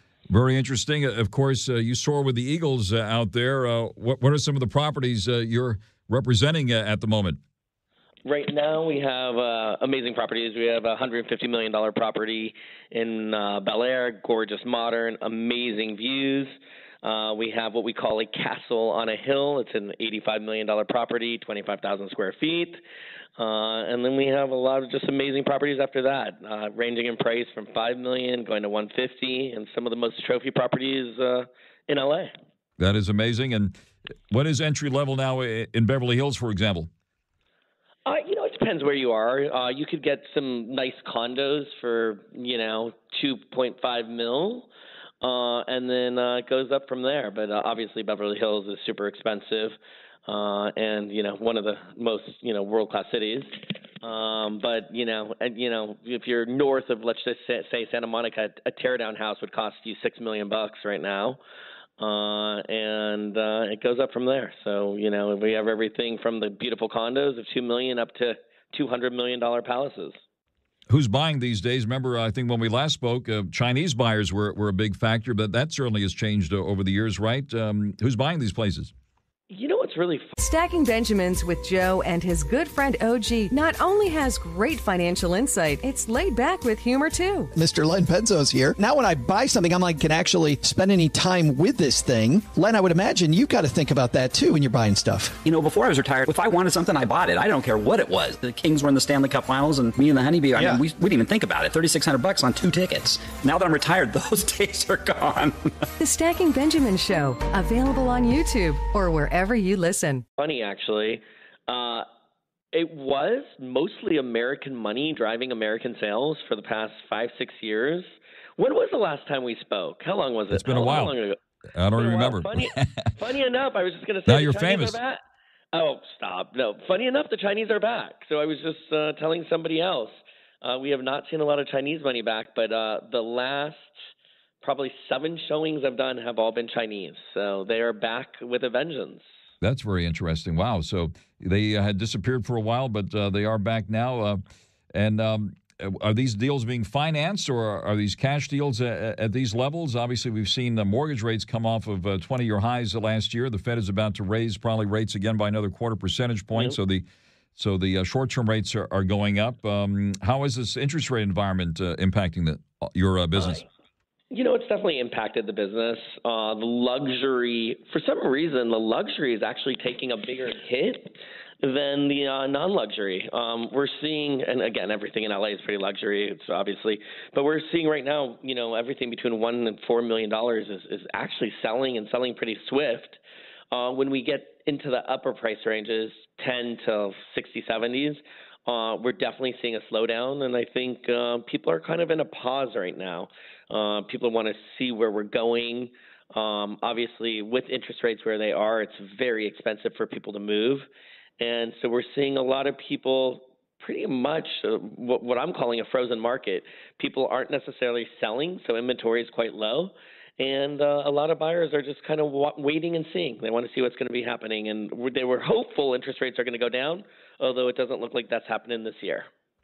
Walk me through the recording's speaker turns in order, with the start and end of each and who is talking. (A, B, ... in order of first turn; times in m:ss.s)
0:00.3-0:07.4 A
0:08.2-0:22.8 B
0:23.4-0:32.3 B
0:32.8-0:33.8 A
0:34.3-0:36.9 A
0:38.1-0:44.7 B
0:45.2-0:49.8 B
0:50.3-1:01.4 B
1:02.0-1:10.2 B
1:10.9-1:18.9 A
1:19.5-1:20.4 B
1:20.4-1:27.5 C
1:27.5-1:35.4 D
1:35.4-1:45.7 E
1:46.0-1:50.2 C
1:50.4-1:52.1 B
1:52.7-2:01.4 B
2:00.5-2:01.2 A
2:01.7-2:03.0 A
2:02.0-2:05.2 B
2:04.3-2:05.0 A
2:05.7-2:13.9 B
2:14.6-2:19.3 B
2:19.6-2:24.4 A
2:24.9-2:43.7 A
2:44.3-3:03.2 B
3:03.7-3:20.9 B
3:21.4-3:39.3 B